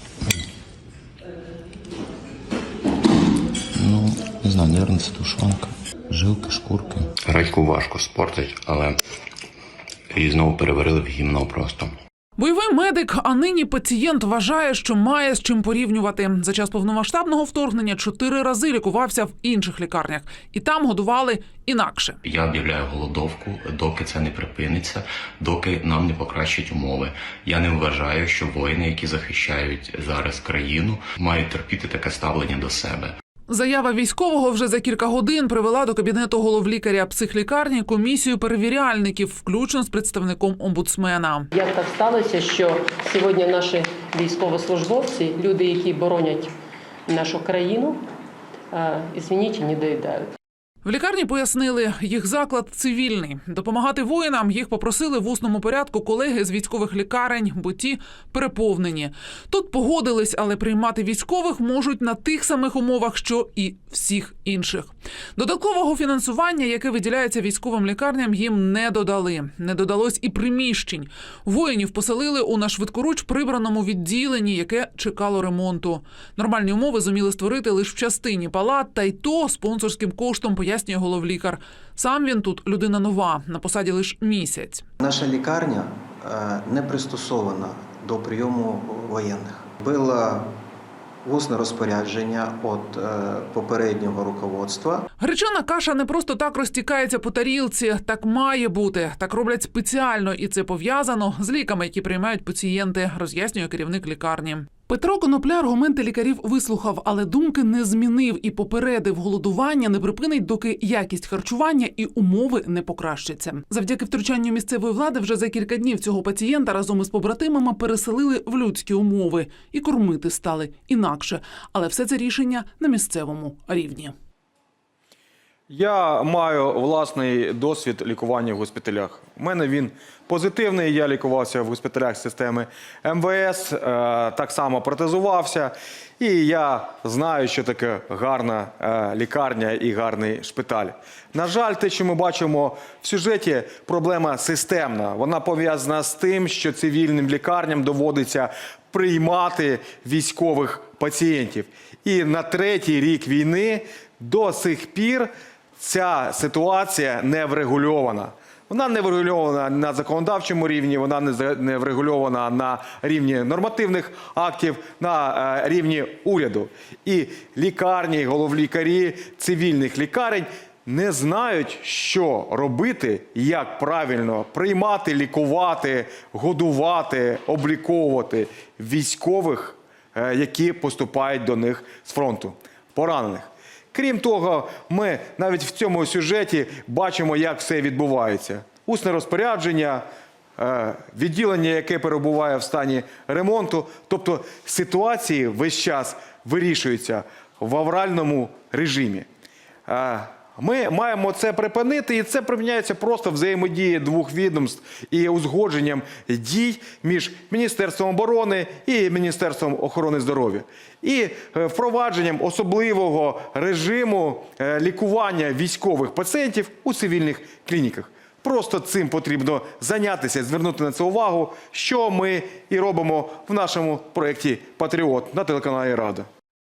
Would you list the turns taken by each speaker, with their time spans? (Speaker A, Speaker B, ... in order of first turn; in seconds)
Speaker A: 3.8-8.9, 10.1-11.9, 22.2-33.1
Speaker B: 12.4-22.2, 33.5-41.5, 50.9-84.8, 95.2-124.1
Speaker C: 41.5-46.5, 47.1-48.0, 48.7-50.3
Speaker D: 85.0-90.5, 91.2-95.0
Speaker E: 125.7-190.1, 190.6-199.3, 199.9-226.3